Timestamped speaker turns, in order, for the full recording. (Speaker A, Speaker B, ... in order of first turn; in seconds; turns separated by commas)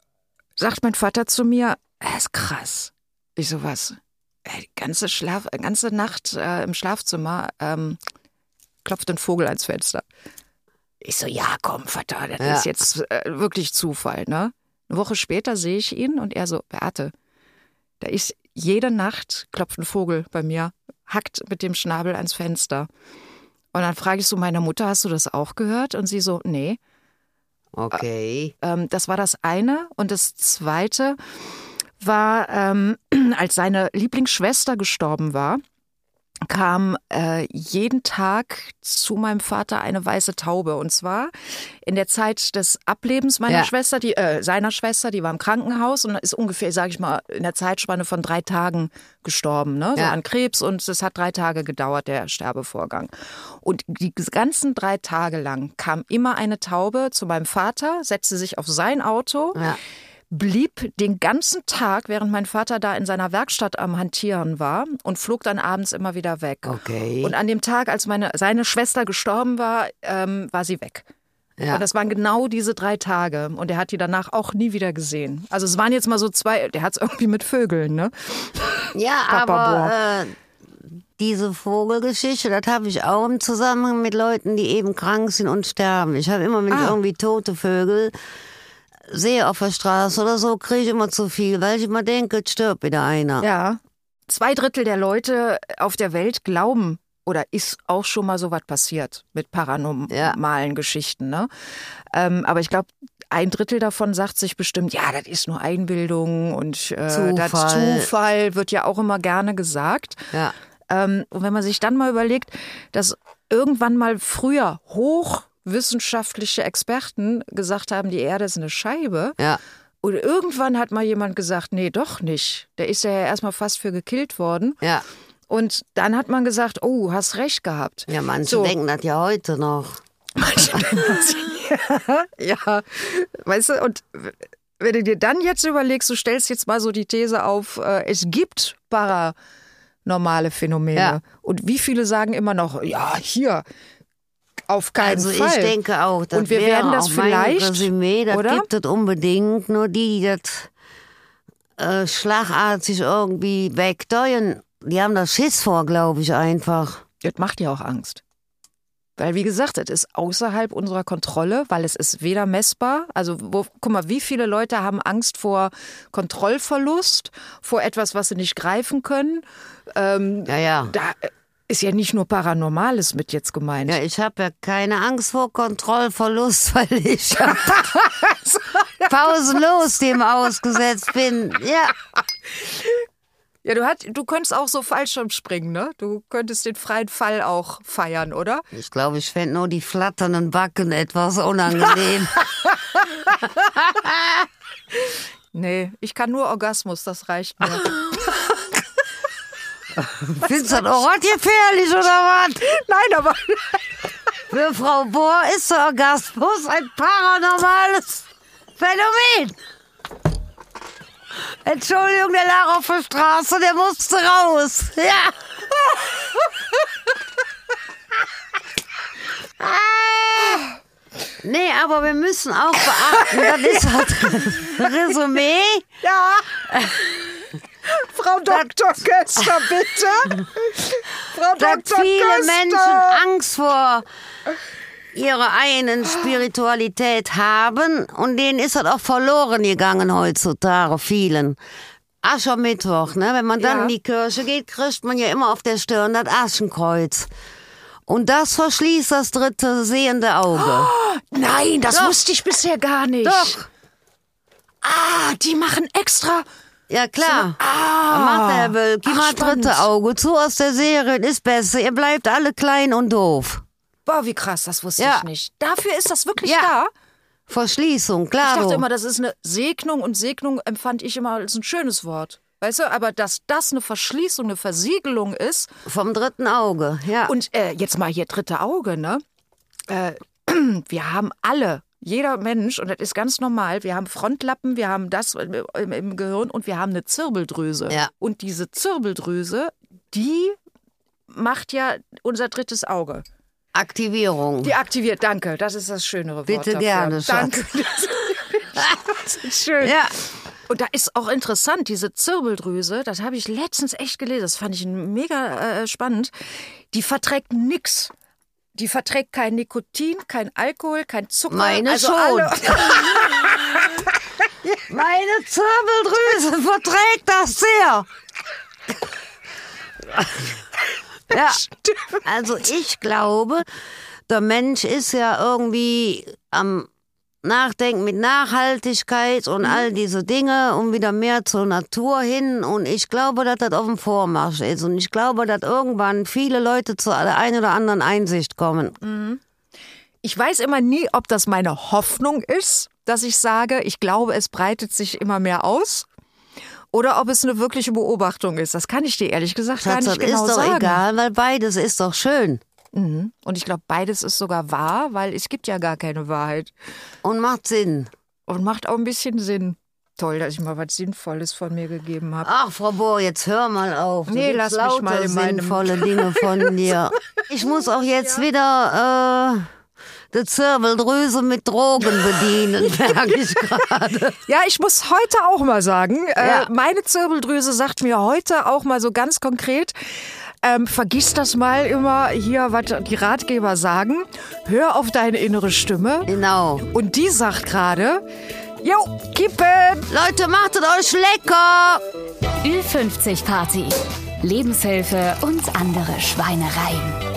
Speaker A: 0.6-8.0, Speaker A: 8.8-10.1, Speaker A: 11.0-17.1, Speaker B: 12.4-12.7, Speaker A: 18.0-22.9, Speaker A: 23.7-26.8, Speaker B: 27.7-28.5, Speaker A: 28.6-31.2, Speaker A: 32.0-35.6, Speaker A: 36.5-41.3, Speaker A: 41.8-59.6, Speaker A: 60.3-71.1, Speaker B: 66.7-67.3, Speaker A: 71.7-80.0, Speaker B: 78.9-80.3, Speaker B: 81.2-88.1, Speaker A: 86.7-87.0, Speaker B: 89.1-93.5, Speaker A: 93.4-101.5, Speaker B: 100.1-100.4, Speaker A: 102.1-110.3, Speaker B: 107.1-108.1, Speaker A: 110.9-119.4, Speaker A: 120.0-124.8, Speaker A: 125.5-128.8, Speaker B: 128.1-130.0, Speaker A: 130.4-139.4, Speaker A: 140.1-143.6, Speaker A: 144.7-145.8, Speaker B: 145.0-150.7, Speaker A: 146.3-148.7, Speaker B: 151.8-157.0, Speaker A: 157.2-158.2, Speaker A: 159.2-174.0, Speaker B: 170.5-170.9, Speaker B: 173.9-177.9, Speaker A: 177.6-179.4, Speaker B: 179.1-181.9, Speaker A: 182.6-183.0, Speaker A: 183.6-188.7, Speaker B: 188.7-192.4, Speaker A: 192.5-193.7, Speaker B: 193.8-194.3, Speaker A: 195.5-198.7, Speaker B: 200.0-202.7, Speaker A: 202.6-203.9, Speaker B: 204.5-208.3, Speaker B: 208.8-209.6, Speaker B: 211.4-215.4, Speaker B: 219.6-220.6, Speaker A: 220.2-220.6, Speaker B: 221.4-225.9, Speaker A: 222.8-223.8, Speaker A: 226.0-227.3, Speaker B: 226.7-227.0, Speaker A: 227.9-233.2, Speaker B: 231.6-234.1, Speaker B: 235.1-241.6, Speaker B: 242.2-247.3, Speaker A: 243.6-243.9, Speaker B: 248.1-250.9, Speaker A: 250.5-253.6, Speaker B: 251.9-252.2, Speaker B: 253.2-253.7, Speaker A: 254.8-256.5, Speaker B: 256.9-263.6, Speaker A: 257.2-259.9, Speaker A: 264.1-266.9, Speaker B: 265.0-265.2, Speaker B: 266.4-266.7, Speaker B: 267.5-268.8, Speaker A: 268.4-275.7, Speaker B: 275.9-277.3, Speaker A: 277.3-279.2, Speaker A: 279.9-290.6, Speaker A: 291.3-293.3, Speaker B: 293.7-294.7, Speaker A: 294.6-300.0, Speaker B: 296.5-297.7, Speaker B: 299.8-300.1, Speaker A: 300.7-306.3, Speaker A: 306.9-308.1, Speaker A: 308.8-314.0, Speaker B: 311.5-313.6, Speaker B: 314.9-318.1, Speaker B: 320.1-320.6, Speaker B: 321.3-321.6, Speaker A: 321.3-322.2, Speaker B: 322.2-323.7, Speaker B: 324.3-326.9, Speaker B: 327.4-339.0, Speaker A: 339.0-339.4, Speaker A: 340.2-346.1, Speaker A: 346.9-351.0, Speaker B: 349.8-352.6, Speaker A: 352.9-356.7, Speaker B: 357.2-358.1, Speaker A: 358.5-362.5, Speaker B: 362.4-369.7, Speaker A: 364.3-366.6, Speaker B: 370.3-374.4, Speaker A: 374.5-379.9, Speaker B: 376.4-376.7, Speaker A: 380.6-386.3, Speaker B: 386.3-386.8, Speaker A: 386.9-388.2, Speaker A: 388.8-390.1, Speaker B: 390.1-392.0, Speaker C: 392.6-397.2